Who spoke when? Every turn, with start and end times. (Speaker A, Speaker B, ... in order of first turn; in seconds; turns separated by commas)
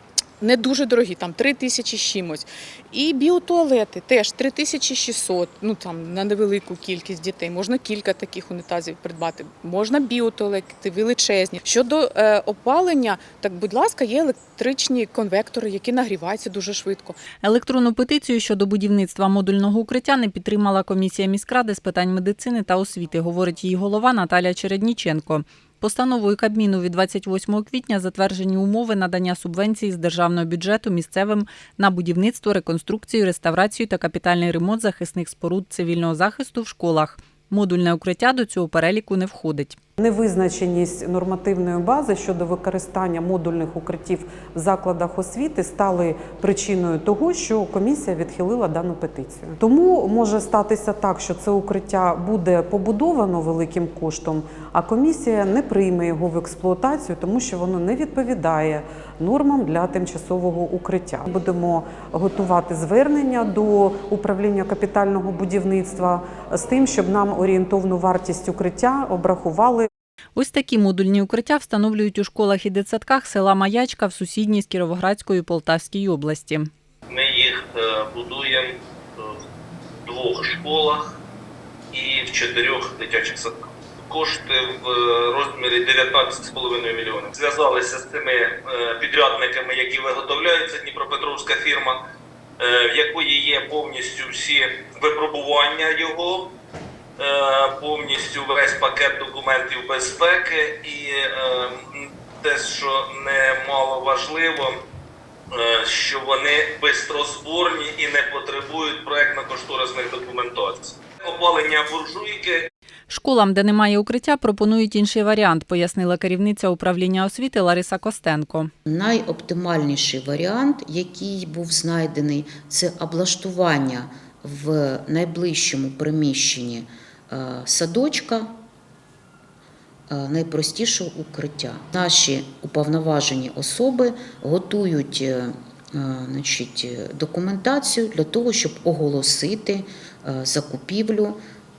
Speaker A: 0.4-17.2, Speaker B: 17.4-39.8, Speaker C: 40.0-69.9, Speaker B: 70.3-76.7, Speaker D: 77.1-79.4, Speaker D: 80.0-81.0, Speaker D: 81.9-92.0, Speaker D: 92.6-96.5, Speaker D: 97.2-104.8, Speaker D: 105.5-112.6, Speaker B: 113.1-118.7, Speaker E: 118.8-128.5, Speaker E: 130.1-141.4